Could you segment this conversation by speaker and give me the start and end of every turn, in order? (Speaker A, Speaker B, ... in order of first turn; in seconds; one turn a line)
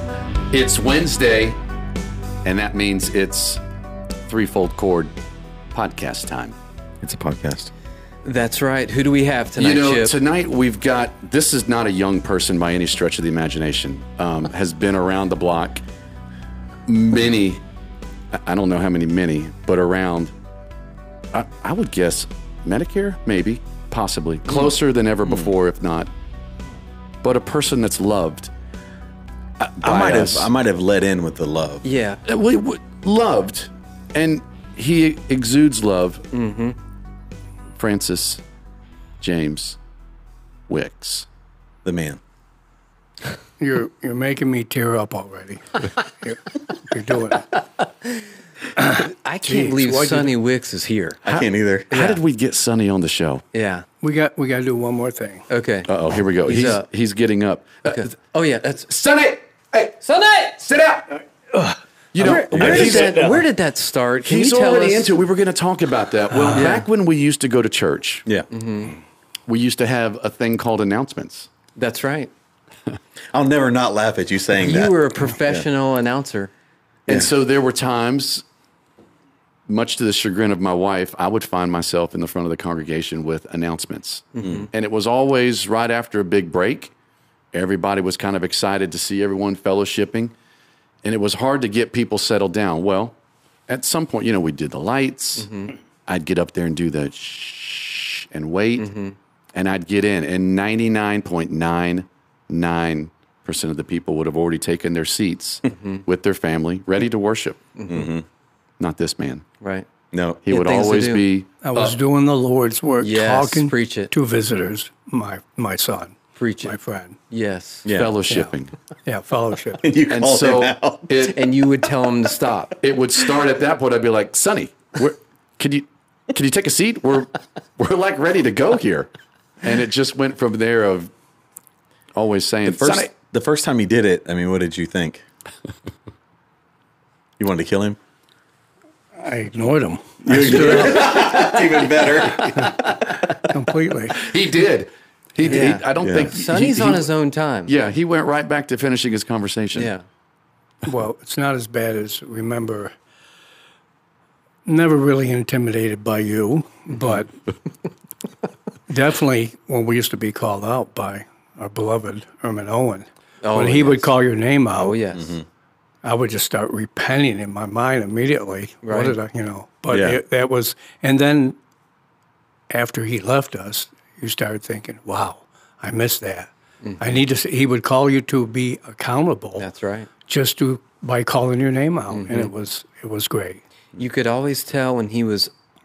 Speaker A: 0.5-1.6
Speaker A: 2.4-3.6
Speaker A: 4.3-5.1
Speaker A: 5.7-6.5
Speaker B: 7.0-7.7
Speaker C: 8.2-10.1
Speaker A: 9.6-15.8
Speaker A: 16.9-17.6
Speaker A: 18.3-20.3
Speaker A: 21.3-26.1
Speaker B: 25.2-25.5
Speaker A: 27.2-28.5
Speaker A: 29.6-30.5
Speaker B: 29.8-31.8
Speaker C: 31.8-32.2
Speaker A: 32.2-36.3
Speaker C: 36.3-36.8
Speaker A: 37.8-38.4
Speaker A: 39.2-39.8
Speaker A: 40.7-41.2
Speaker B: 41.8-42.2
Speaker D: 43.6-47.5
Speaker D: 48.8-50.3
Speaker C: 48.9-51.2
Speaker B: 51.2-51.9
Speaker A: 51.2-53.4
Speaker C: 51.9-52.2
Speaker C: 53.5-53.9
Speaker D: 54.0-55.5
Speaker C: 55.5-55.9
Speaker A: 55.9-58.1
Speaker C: 56.4-56.8
Speaker C: 57.8-58.9
Speaker A: 58.8-60.0
Speaker C: 60.0-60.6
Speaker A: 60.6-61.1
Speaker D: 61.5-63.3
Speaker A: 62.1-63.4
Speaker C: 62.2-65.1
Speaker B: 62.5-63.1
Speaker A: 64.2-68.2
Speaker D: 66.3-66.7
Speaker C: 66.5-66.9
Speaker C: 68.5-69.0
Speaker A: 69.5-71.5
Speaker C: 71.8-72.3
Speaker B: 73.3-75.6
Speaker C: 74.6-76.5
Speaker A: 77.1-78.4
Speaker A: 79.7-86.9
Speaker C: 84.3-84.7
Speaker B: 84.4-84.7
Speaker A: 87.5-90.3
Speaker A: 91.0-93.2
Speaker A: 93.7-98.9
Speaker C: 95.4-95.7
Speaker C: 98.8-99.2
Speaker A: 99.5-107.7
Speaker C: 105.7-106.0
Speaker C: 107.8-108.1
Speaker B: 107.9-108.2
Speaker A: 108.8-109.4
Speaker C: 109.6-109.9
Speaker B: 110.1-110.4
Speaker A: 110.4-112.0
Speaker C: 110.5-111.2
Speaker D: 111.6-117.2
Speaker C: 113.0-114.1
Speaker C: 116.4-116.8
Speaker C: 117.3-117.9
Speaker B: 117.8-118.2
Speaker A: 117.9-118.7
Speaker D: 119.0-119.9
Speaker B: 119.8-121.1
Speaker A: 120.1-121.5
Speaker C: 121.2-122.8
Speaker A: 122.8-129.1
Speaker A: 129.6-131.1
Speaker A: 132.1-133.1
Speaker B: 132.6-135.2
Speaker B: 137.4-138.0
Speaker D: 139.2-141.6
Speaker B: 140.2-142.9
Speaker D: 142.4-144.3
Speaker A: 144.2-147.1
Speaker C: 145.4-147.7
Speaker B: 146.0-146.3
Speaker A: 147.7-149.9
Speaker C: 149.8-150.0
Speaker D: 150.8-152.9
Speaker D: 154.7-157.3
Speaker C: 156.9-157.2
Speaker D: 158.9-165.0
Speaker C: 163.4-164.1
Speaker C: 164.7-165.4
Speaker B: 165.1-165.4
Speaker D: 166.0-171.6
Speaker C: 168.8-169.2
Speaker B: 169.9-170.2
Speaker D: 172.7-179.7
Speaker C: 176.8-177.2
Speaker C: 179.6-180.1
Speaker D: 180.3-183.6
Speaker C: 182.1-182.5
Speaker C: 183.9-185.5